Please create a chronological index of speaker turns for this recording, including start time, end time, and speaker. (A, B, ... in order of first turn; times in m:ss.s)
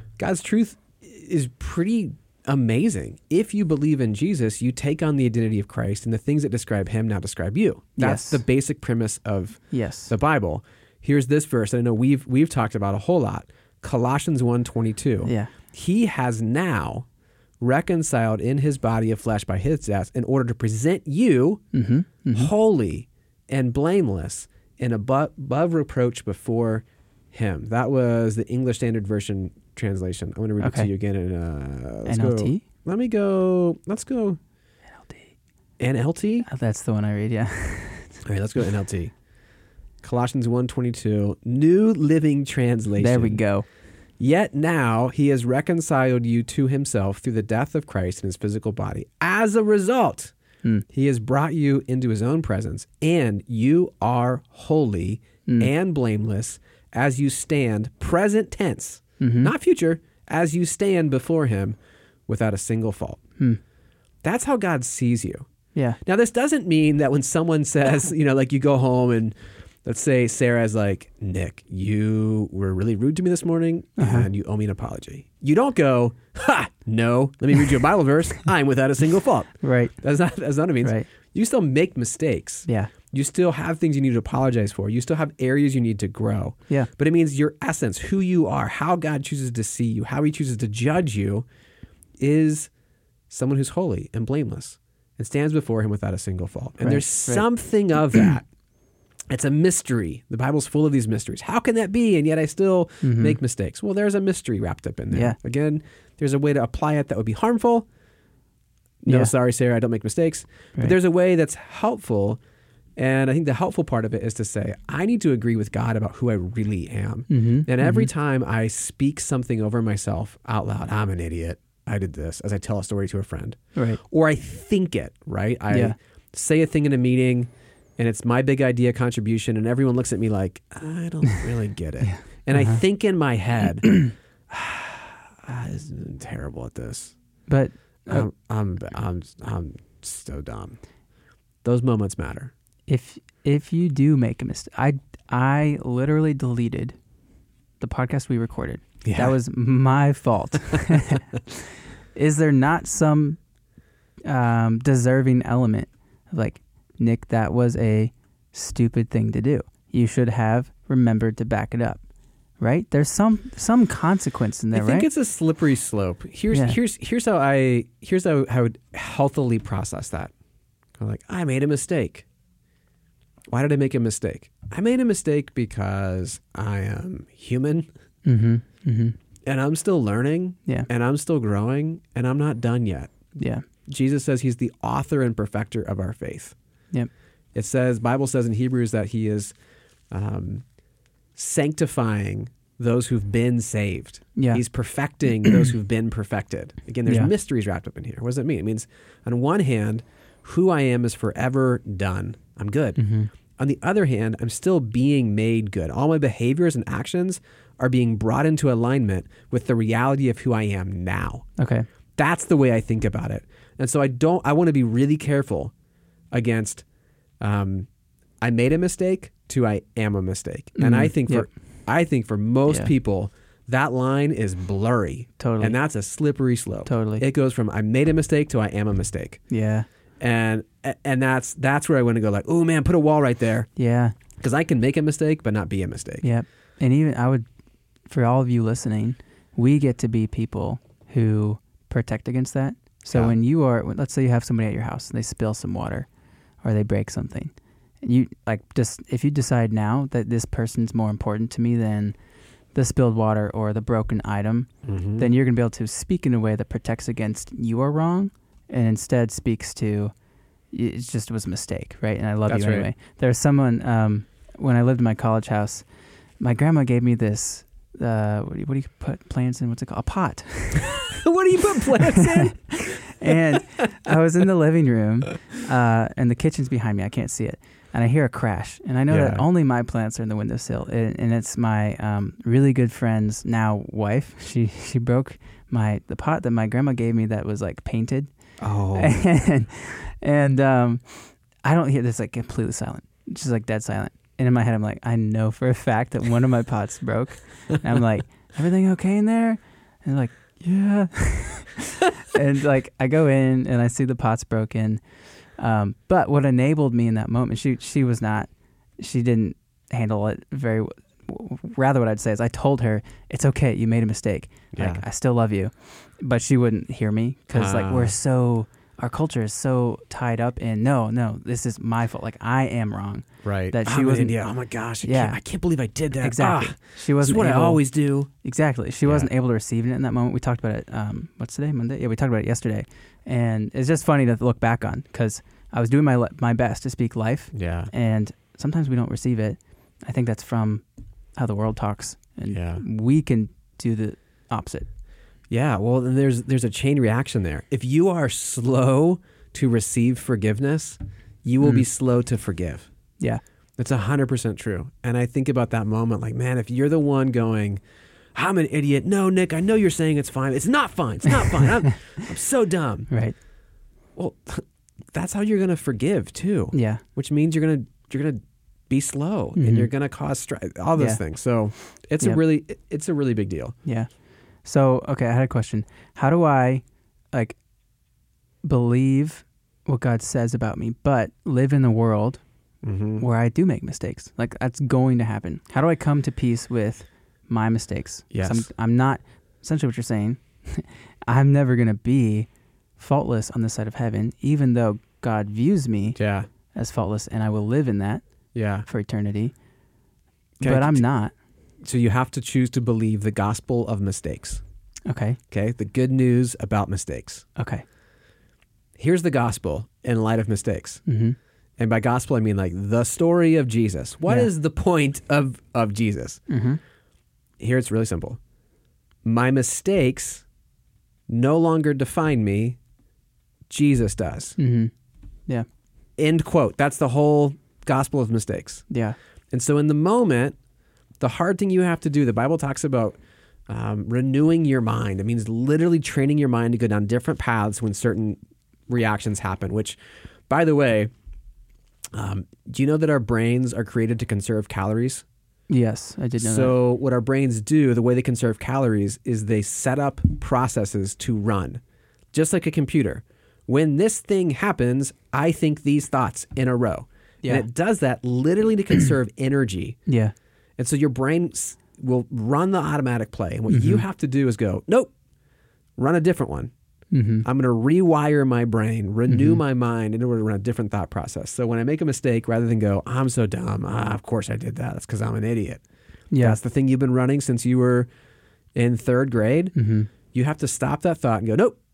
0:00.2-0:17.0 A
0:08.0-0:08.4 B
0:09.7-0:10.1 B
0:15.2-0:15.5 B
0:17.6-0:21.6 A
0:21.7-0:22.5 B
0:22.3-0:34.4 A
0:30.6-0:30.9 B
0:32.0-0:32.6 B
0:35.8-0:36.5 A
0:36.4-0:38.2 B
0:38.2-0:39.1 A
0:40.0-0:43.4 A
0:43.0-0:43.6 B
0:44.2-0:50.3 A
0:50.9-1:01.8 A
0:59.2-0:59.5 B
1:02.3-1:03.2 A
1:04.2-1:05.4 A
1:06.0-1:31.4 A
1:14.0-1:14.3 B
1:19.6-1:20.0 B
1:20.8-1:21.1 B
1:22.7-1:22.9 B
1:32.2-1:32.7 A
1:33.3-1:38.4 A
1:36.8-1:37.4 B
1:39.3-1:47.8 A
1:43.0-1:43.4 B
1:45.1-1:45.4 B
1:49.0-1:52.4 A
1:53.0-2:17.1 A
1:57.3-1:58.1 B
2:03.7-2:04.0 B
2:05.7-2:05.9 B
2:12.0-2:12.8 B
2:13.9-2:14.1 B
2:17.5-2:18.3 B
2:18.1-2:20.8 A
2:21.6-2:22.5 A
2:22.9-2:27.0 B
2:27.8-2:33.4 B
2:29.0-2:29.4 A
2:34.2-2:42.0 B
2:42.6-2:45.1 B
2:44.7-2:50.3 A
2:46.5-2:46.8 B
2:51.0-2:52.2 A
2:53.5-2:57.9 A
2:58.2-2:59.2 B
2:59.4-3:03.3 A
3:03.4-3:03.6 B
3:03.9-3:06.5 A
3:07.5-3:09.5 A
3:10.1-3:10.6 A
3:11.3-3:23.0 A
3:14.4-3:14.6 B
3:17.0-3:17.3 B
3:23.0-3:23.3 B
3:23.6-3:31.5 A
3:31.6-3:31.8 B
3:32.2-3:35.7 A
3:36.3-3:36.8 A
3:37.4-3:37.9 A
3:38.4-3:49.4 A
3:40.8-3:41.5 B
3:45.4-3:45.8 B
3:46.8-3:47.2 B
3:49.5-3:49.8 B
3:50.2-3:53.7 A
3:53.8-3:54.1 B
3:54.4-3:56.2 A
3:56.2-3:57.4 B
3:58.1-4:06.1 B
4:06.6-4:12.1 B
4:12.7-4:20.1 B
4:14.8-4:15.3 A
4:20.7-4:25.8 B
4:22.5-4:22.9 A
4:26.4-4:31.2 B
4:30.8-4:33.6 A
4:31.9-4:48.3 B
4:39.1-4:39.4 A
4:48.6-4:49.2 A
4:48.9-5:05.0 B
5:05.6-5:24.4 B
5:14.7-5:15.0 A
5:17.5-5:18.1 A
5:23.4-5:28.3 A
5:25.0-5:25.4 B
5:26.2-5:27.8 B
5:28.4-5:40.8 B
5:37.5-5:37.9 A
5:41.4-5:44.9 B
5:42.5-5:42.8 A
5:45.5-5:52.9 A
5:53.8-5:57.8 A
5:58.3-6:03.1 A
6:01.6-6:01.9 B
6:03.1-6:03.4 B
6:04.2-6:13.7 A
6:06.7-6:07.0 B
6:09.6-6:09.9 B
6:14.6-6:17.6 B
6:18.6-6:22.4 B
6:22.8-6:23.2 A
6:23.2-6:32.5 B
6:28.3-6:28.7 A
6:33.0-6:36.2 B
6:36.2-6:36.5 A
6:36.7-6:38.2 B
6:38.5-6:38.8 A
6:38.8-6:39.5 B
6:40.6-6:41.0 A
6:40.6-6:41.3 B
6:41.8-6:44.6 A
6:45.1-6:45.4 B
6:45.5-6:47.4 A
6:47.6-6:47.8 B
6:49.0-6:51.0 A
6:51.0-6:51.4 B
6:51.8-6:56.4 A
6:56.5-6:56.8 B
6:57.6-6:58.4 A
6:59.2-7:00.4 A
7:01.3-7:02.8 A
7:03.7-7:04.6 A
7:04.6-7:04.9 B
7:06.2-7:08.8 A
7:08.9-7:09.2 B
7:09.5-7:10.6 A
7:11.2-7:13.2 A
7:13.7-7:20.0 A
7:20.5-7:21.1 A
7:22.1-7:25.2 A
7:25.7-7:26.8 B
7:26.4-7:31.8 A
7:32.3-7:40.0 A
7:40.1-7:40.3 B
7:40.8-7:45.1 A
7:43.7-7:44.0 B
7:46.0-7:46.7 A
7:47.1-7:47.4 B
7:47.4-7:55.8 A
7:49.3-7:49.6 B
7:56.3-7:56.6 B
7:56.4-7:58.1 A
7:58.7-7:59.7 A
7:59.7-8:00.1 B
8:00.3-8:01.8 A